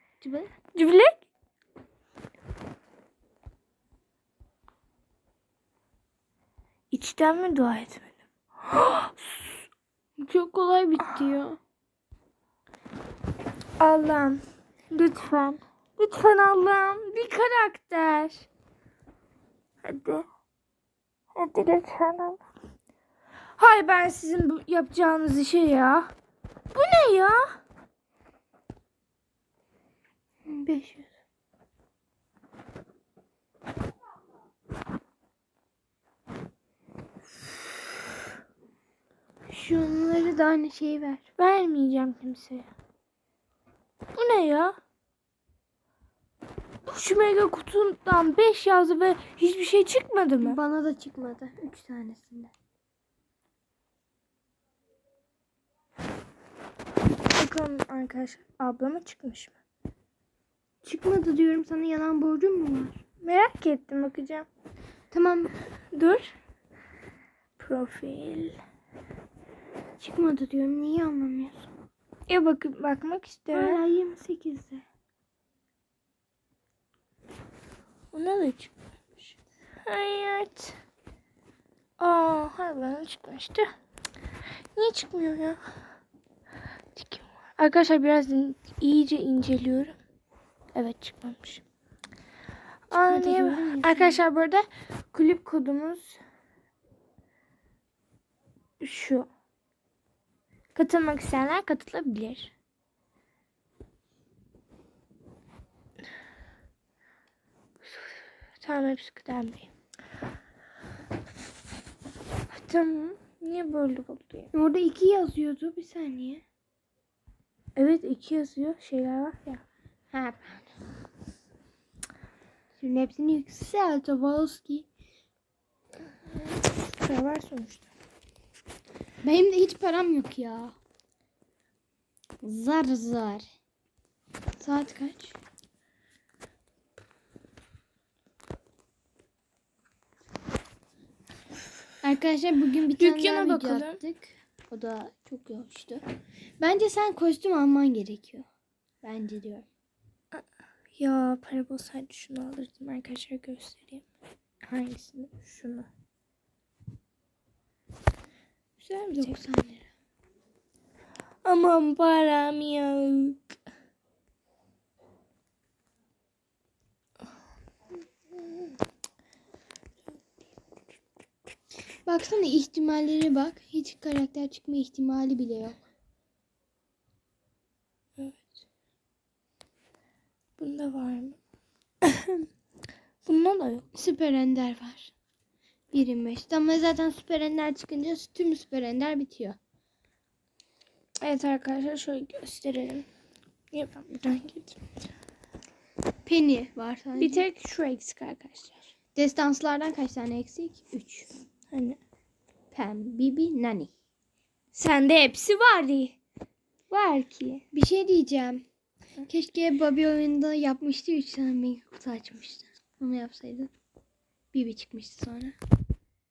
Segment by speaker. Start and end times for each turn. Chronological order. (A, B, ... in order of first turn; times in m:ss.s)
0:00.2-0:00.5 A
0:00.8-0:01.2 B
0:06.9-0:08.1 B
0:08.6-0:09.5 B
0:10.2-0:11.6 A
0:13.8-0:18.5 B
0:19.8-0:20.3 B
0:21.4-0:22.4 B
0:23.6-0:26.1 B
0:26.7-0:27.6 B
0:30.5-0:31.1 A
0:39.5-0:41.2 A
0:41.4-0:42.7 B
0:44.2-0:44.8 B
0:46.8-0:50.6 B
0:50.4-0:52.5 A
0:57.3-0:59.5 B
1:00.8-1:03.0 A
1:03.2-1:04.5 B
1:05.1-1:05.5 A
1:05.9-1:06.3 B
1:07.6-1:08.6 B
1:10.0-1:11.7 A
1:12.3-1:13.8 B
1:13.5-1:14.8 A
1:18.1-1:18.7 B
1:19.9-1:20.8 B
1:22.0-1:23.7 B
1:24.8-1:25.6 B
1:26.9-1:30.0 B
1:30.7-1:31.6 B
1:32.9-1:36.2 B
1:33.0-1:34.2 A
1:38.8-1:39.3 B
1:40.8-1:42.5 B
1:47.8-1:49.7 B
1:52.5-1:54.5 B
1:54.5-1:56.4 A
1:57.8-1:59.6 B
2:00.1-2:00.7 A
2:02.8-2:04.9 A
2:07.0-2:07.9 B
2:09.2-2:10.8 A
2:12.4-2:13.5 A
2:14.6-2:15.4 A
2:22.0-2:26.0 A
2:23.0-2:24.0 B
2:26.6-2:28.5 A
2:29.0-2:29.7 A
2:31.0-2:34.0 B
2:34.6-2:35.9 B
2:38.8-2:39.4 B
2:39.1-2:39.9 A
2:41.4-2:43.4 B
2:52.0-2:55.8 A
2:58.2-2:58.4 B
3:00.6-3:01.4 B
3:02.0-3:02.4 B
3:03.3-3:03.9 B
3:04.0-3:05.1 A
3:05.9-3:09.6 A
3:11.2-3:13.1 B
3:13.7-3:14.8 B
3:16.2-3:17.4 A
3:17.2-3:18.8 B
3:19.2-3:21.3 A
3:21.7-3:22.0 B
3:22.7-3:23.9 A
3:24.7-3:26.2 B
3:26.9-3:27.6 B
3:27.7-3:28.6 A
3:29.3-3:33.7 A
3:34.5-3:35.6 A